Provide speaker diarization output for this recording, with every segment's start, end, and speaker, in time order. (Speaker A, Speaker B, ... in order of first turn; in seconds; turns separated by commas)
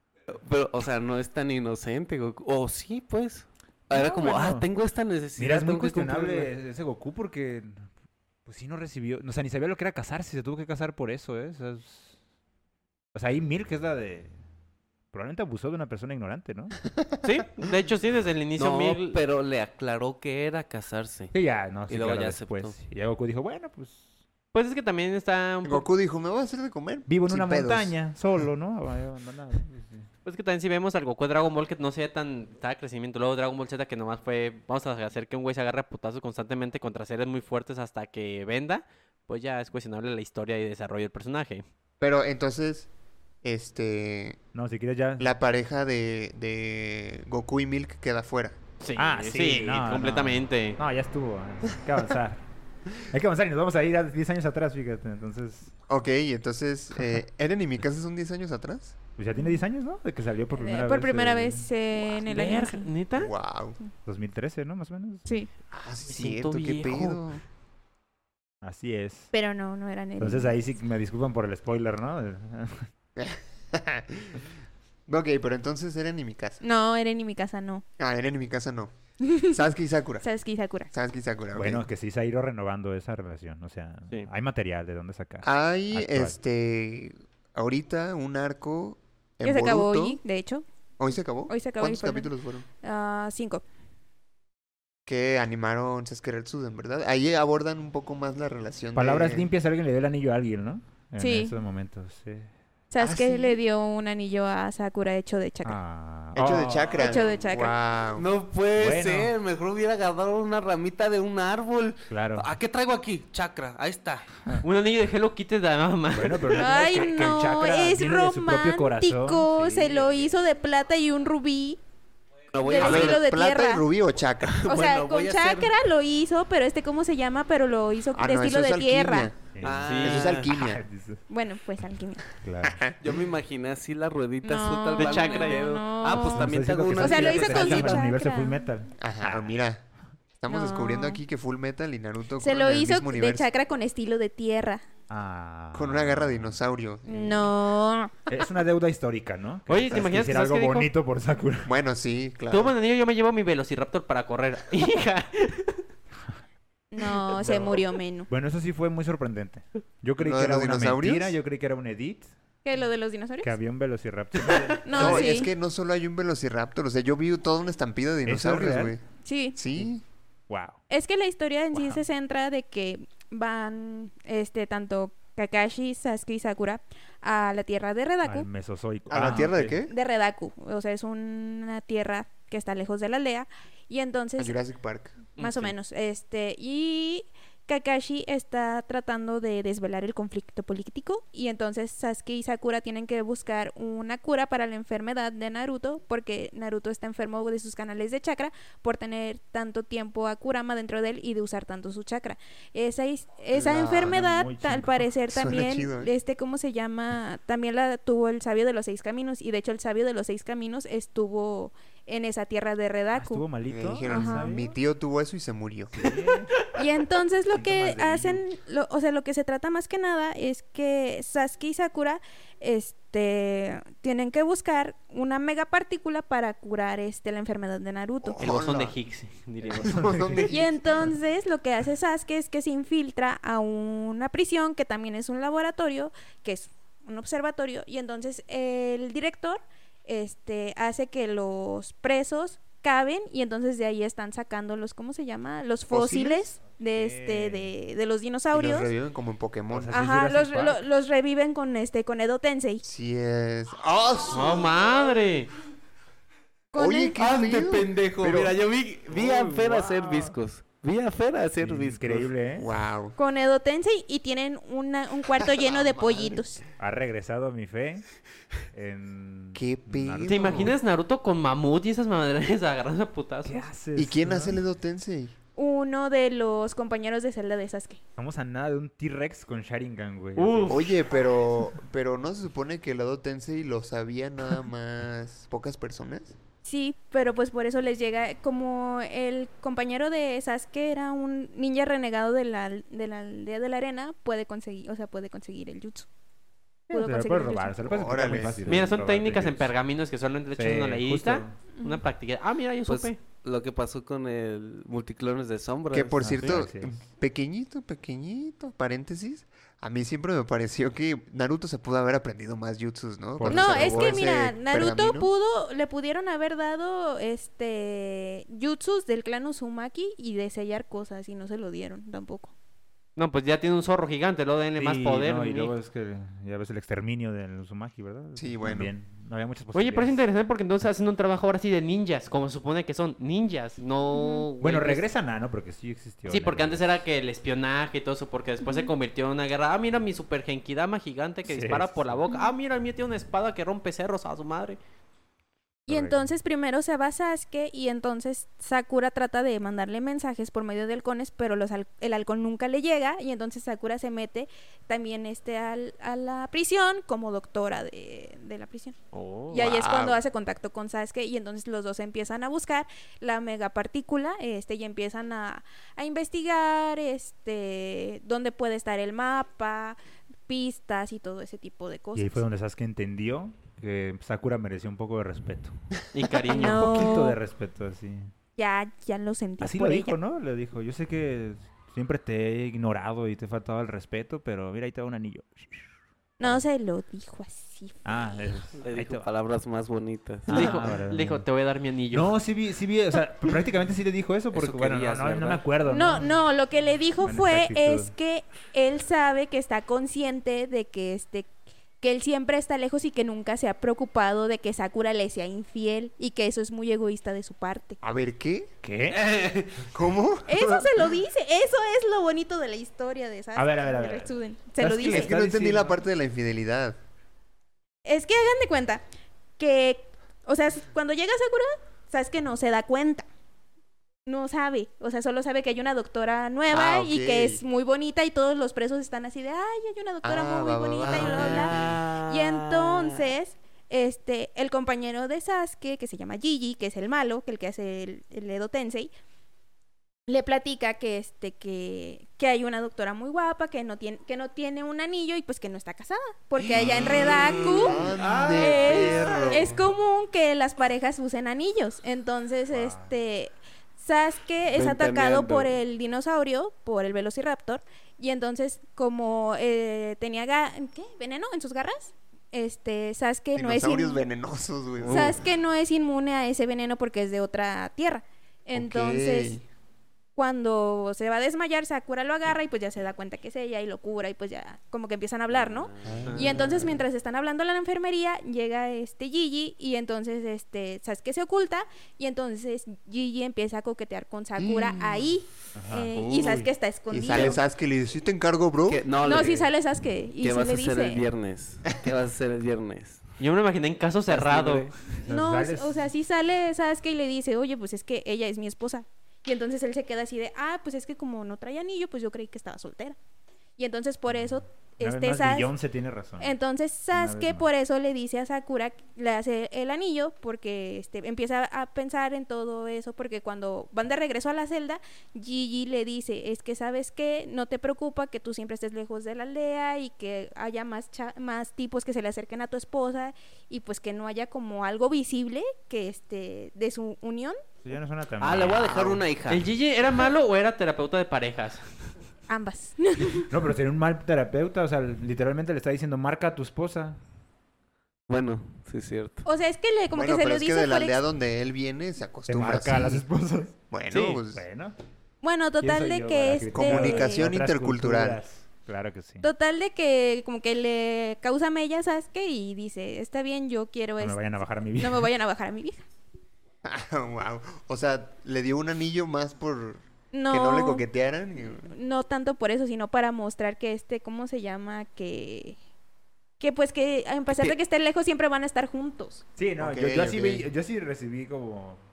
Speaker A: 0.3-6.5, Speaker B: 3.9-4.7, Speaker B: 5.4-7.9, Speaker B: 8.5-12.2, Speaker B: 13.1-14.3, Speaker B: 15.1-16.8, Speaker C: 17.2-19.2, Speaker A: 18.6-21.3, Speaker B: 21.3-24.0, Speaker A: 21.9-22.8, Speaker C: 24.5-25.9, Speaker D: 25.6-27.9, Speaker B: 27.1-30.1, Speaker C: 30.2-41.6, Speaker D: 42.0-42.9, Speaker D: 43.4-44.4, Speaker B: 44.5-45.4, Speaker D: 45.2-48.6, Speaker C: 48.8-50.8, Speaker B: 49.0-52.4, Speaker B: 53.0-55.8, Speaker D: 55.9-59.0, Speaker B: 59.2-61.7, Speaker E: 60.6-62.9, Speaker C: 62.1-63.3, Speaker D: 63.1-63.8, Speaker B: 64.1-65.3, Speaker D: 65.7-67.4, Speaker C: 66.1-67.2, Speaker B: 68.6-69.3, Speaker E: 69.3-70.5, Speaker B: 70.2-72.9, Speaker D: 73.2-74.5, Speaker D: 75.1-76.6, Speaker E: 76.6-77.8, Speaker D: 78.0-78.9, Speaker E: 79.2-79.6, Speaker D: 79.5-80.3, Speaker E: 80.2-80.9, Speaker D: 80.9-81.9, Speaker B: 81.5-86.4, Speaker D: 85.4-90.2, Speaker E: 89.4-90.7, Speaker D: 91.0-92.7, Speaker E: 91.5-92.3, Speaker E: 92.8-93.6, Speaker D: 95.1-99.5, Speaker B: 99.0-102.5, Speaker E: 101.2-101.5, Speaker E: 102.9-105.8, Speaker D: 103.0-103.6, Speaker B: 105.6-107.0, Speaker D: 106.3-108.3, Speaker E: 107.0-107.7, Speaker A: 108.2-114.3, Speaker B: 108.8-109.3, Speaker B: 112.1-112.5, Speaker C: 114.6-116.6, Speaker B: 116.1-120.3, Speaker E: 116.5-121.8, Speaker A: 122.5-123.2, Speaker E: 122.6-123.8, Speaker D: 122.8-124.6, Speaker A: 124.4-125.7, Speaker E: 124.7-129.3, Speaker D: 128.1-130.8, Speaker B: 129.5-131.2, Speaker A: 129.6-130.5, Speaker C: 129.8-130.4, Speaker E: 131.3-132.3, Speaker B: 132.4-132.8, Speaker D: 132.7-133.0, Speaker A: 133.0-138.1, Speaker E: 134.4-138.7, Speaker C: 134.9-135.7, Speaker B: 136.1-139.5, Speaker D: 139.0-139.8, Speaker D: 140.4-143.5, Speaker E: 140.5-141.2, Speaker E: 142.4-144.8, Speaker B: 145.1-146.6, Speaker D: 145.7-147.5, Speaker E: 147.1-148.3, Speaker B: 148.3-151.7, Speaker C: 149.7-150.9, Speaker D: 151.6-152.7, Speaker C: 152.5-155.8, Speaker E: 156.9-158.3, Speaker B: 157.3-162.3, Speaker D: 157.4-157.8, Speaker D: 160.2-161.4, Speaker E: 162.7-163.5, Speaker B: 163.4-165.3, Speaker E: 164.8-165.5, Speaker D: 164.9-169.0, Speaker B: 168.2-168.9, Speaker E: 169.2-169.6, Speaker D: 169.6-170.0, Speaker B: 170.5-170.8, Speaker E: 170.9-178.5, Speaker B: 171.7-172.0, Speaker B: 178.2-179.8, Speaker D: 179.1-179.9, Speaker E: 179.9-184.6, Speaker D: 184.4-185.3, Speaker C: 185.4-185.7, Speaker E: 185.4-213.5, Speaker D: 203.5-204.1, Speaker B: 203.6-205.1, Speaker D: 205.3-206.1, Speaker B: 213.1-214.7, Speaker D: 213.7-216.1, Speaker E: 214.1-214.5, Speaker B: 216.0-216.7, Speaker E: 216.7-228.6, Speaker B: 217.5-218.4, Speaker D: 228.2-228.9, Speaker C: 228.4-230.2, Speaker D: 229.7-230.8, Speaker B: 229.8-230.5, Speaker E: 230.5-248.9, Speaker D: 245.9-246.4, Speaker B: 246.8-247.7, Speaker D: 248.5-250.0, Speaker B: 249.7-250.8, Speaker E: 249.9-252.8, Speaker D: 252.8-254.8, Speaker C: 254.3-255.5, Speaker E: 256.7-257.2, Speaker D: 256.7-258.5, Speaker A: 257.1-262.3, Speaker B: 259.1-260.4, Speaker B: 261.6-262.7, Speaker D: 262.6-263.2, Speaker E: 263.2-266.6, Speaker D: 265.4-266.6, Speaker B: 266.8-268.1, Speaker B: 268.7-270.8, Speaker D: 269.6-270.8, Speaker C: 270.2-273.7, Speaker B: 273.4-274.6, Speaker D: 274.0-275.3, Speaker E: 275.6-278.0, Speaker B: 278.2-280.9, Speaker C: 280.4-280.8, Speaker D: 280.7-286.4, Speaker E: 286.6-296.1, Speaker E: 296.9-297.8, Speaker B: 296.9-299.7, Speaker D: 297.9-298.7, Speaker C: 298.7-303.2, Speaker B: 300.6-301.6, Speaker E: 301.8-302.0, Speaker A: 302.9-306.3, Speaker D: 305.9-315.3, Speaker B: 306.2-307.0, Speaker B: 313.4-314.2, Speaker E: 313.5-322.5, Speaker C: 323.2-325.7, Speaker B: 324.8-330.2, Speaker D: 328.4-328.9, Speaker C: 329.7-335.0, Speaker E: 334.1-334.5, Speaker B: 334.6-336.9, Speaker C: 336.3-344.8, Speaker E: 338.6-338.9, Speaker B: 341.4-342.2, Speaker E: 345.9-358.9, Speaker B: 345.9-346.3, Speaker C: 359.1-359.6, Speaker E: 359.5-372.4, Speaker D: 359.5-360.2, Speaker B: 372.1-375.8, Speaker C: 376.1-377.1, Speaker E: 376.5-377.4, Speaker B: 376.5-378.3, Speaker E: 378.6-380.2, Speaker B: 379.6-385.9, Speaker E: 386.4-388.6, Speaker B: 388.1-389.3, Speaker A: 388.8-390.8, Speaker B: 390.5-391.4, Speaker C: 390.5-392.3, Speaker B: 392.1-396.3, Speaker A: 394.5-395.7, Speaker E: 395.9-408.0, Speaker B: 397.2-398.1, Speaker D: 408.0-408.7, Speaker B: 408.8-409.4, Speaker A: 409.1-409.9, Speaker D: 409.9-410.9, Speaker E: 410.5-415.3, Speaker B: 413.6-416.0, Speaker D: 415.0-417.0, Speaker E: 418.1-419.0, Speaker E: 419.6-423.3, Speaker E: 424.3-439.1, Speaker D: 426.7-427.6, Speaker D: 430.2-432.0, Speaker A: 431.0-433.3, Speaker E: 440.3-464.2, Speaker D: 446.6-449.8, Speaker B: 448.3-448.9, Speaker B: 452.7-453.1, Speaker A: 454.7-455.8, Speaker D: 463.6-465.4, Speaker A: 465.0-465.3, Speaker E: 465.1-469.6, Speaker D: 468.8-469.6, Speaker E: 470.4-487.6, Speaker A: 475.5-476.5, Speaker D: 476.0-477.0, Speaker C: 476.3-476.6, Speaker D: 484.6-485.3, Speaker B: 485.8-486.7, Speaker A: 486.1-486.6, Speaker D: 487.1-489.1, Speaker A: 488.9-489.7, Speaker E: 489.2-491.3, Speaker A: 490.4-493.3, Speaker C: 493.4-494.9, Speaker A: 494.3-495.2, Speaker B: 495.2-496.0, Speaker E: 495.3-503.2, Speaker E: 503.8-505.7, Speaker B: 505.0-506.6, Speaker E: 506.4-527.6, Speaker B: 507.1-507.7, Speaker B: 527.9-529.1, Speaker A: 528.4-529.7, Speaker D: 528.8-529.2, Speaker C: 529.5-531.8, Speaker E: 532.5-533.5, Speaker B: 533.5-537.2, Speaker A: 538.3-539.5, Speaker E: 539.5-541.2, Speaker D: 540.1-543.2, Speaker B: 542.5-545.0, Speaker D: 543.9-544.6, Speaker E: 545.4-547.5, Speaker B: 545.8-549.5, Speaker D: 546.8-548.4, Speaker E: 549.4-554.4, Speaker B: 554.2-555.3, Speaker E: 555.0-556.0, Speaker D: 556.8-561.9, Speaker E: 560.3-561.0, Speaker E: 561.9-565.8, Speaker E: 566.6-569.4, Speaker B: 569.6-572.0, Speaker D: 569.8-570.7